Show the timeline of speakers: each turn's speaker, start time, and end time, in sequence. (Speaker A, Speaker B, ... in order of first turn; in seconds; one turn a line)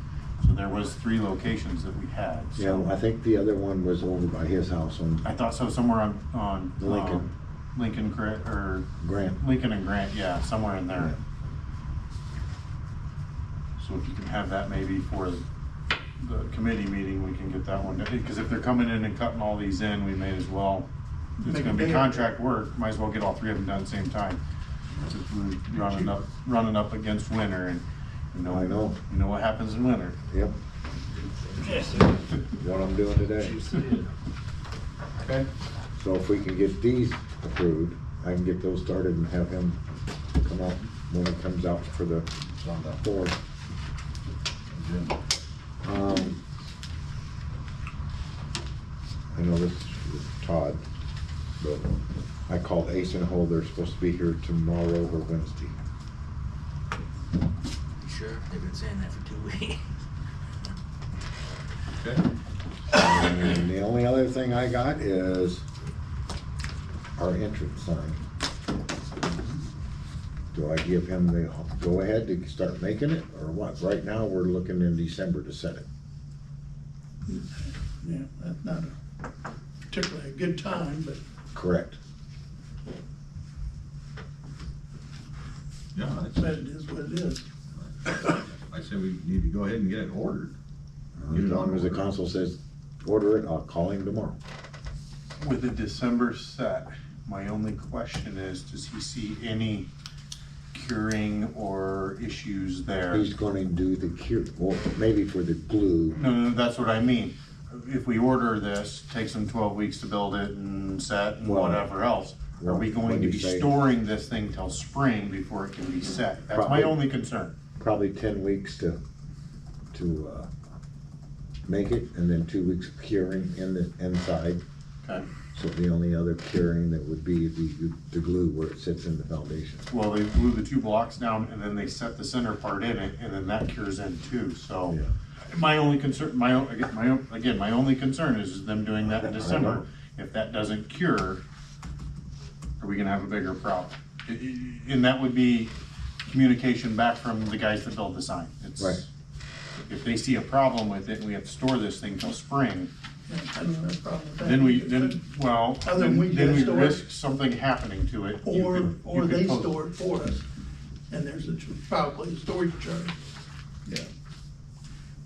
Speaker A: 0.4-2.9
Speaker B: 2.5-5.2
Speaker A: 5.2-8.9
Speaker B: 6.8-7.3
Speaker B: 9.0-9.4
Speaker A: 9.4-11.1
Speaker A: 13.8-15.4
Speaker A: 16.2-20.9
Speaker C: 21.4-22.2
Speaker A: 21.4-24.4
Speaker A: 25.1-30.2
Speaker B: 28.5-29.0
Speaker B: 30.3-30.6
Speaker D: 31.6-32.0
Speaker B: 32.5-33.6
Speaker D: 33.3-34.0
Speaker B: 36.0-39.8
Speaker B: 40.4-42.3
Speaker E: 42.6-43.0
Speaker B: 42.9-43.4
Speaker E: 44.7-45.1
Speaker B: 45.8-46.4
Speaker B: 49.3-50.8
Speaker B: 51.6-52.0
Speaker B: 52.5-55.8
Speaker D: 58.0-59.8
Speaker E: 62.0-62.2
Speaker B: 62.9-65.6
Speaker B: 67.2-68.2
Speaker B: 70.5-75.8
Speaker C: 77.3-79.0
Speaker C: 79.9-81.2
Speaker B: 81.5-82.0
Speaker E: 85.9-86.6
Speaker C: 86.3-87.5
Speaker E: 87.7-90.5
Speaker B: 91.2-94.4
Speaker E: 91.3-92.0
Speaker A: 95.4-99.9
Speaker A: 100.7-103.3
Speaker B: 103.1-106.2
Speaker A: 106.1-117.5
Speaker B: 111.4-111.9
Speaker B: 112.6-113.7
Speaker B: 116.5-117.0
Speaker B: 117.8-119.0
Speaker B: 119.9-120.5
Speaker B: 121.7-124.6
Speaker B: 125.5-129.9
Speaker A: 129.9-135.0
Speaker A: 135.5-141.4
Speaker B: 139.3-139.8
Speaker A: 142.8-145.7
Speaker A: 146.2-149.1
Speaker A: 149.8-152.9
Speaker C: 153.3-155.2
Speaker A: 154.4-159.7
Speaker C: 155.8-157.1
Speaker C: 158.4-160.4
Speaker C: 161.1-163.1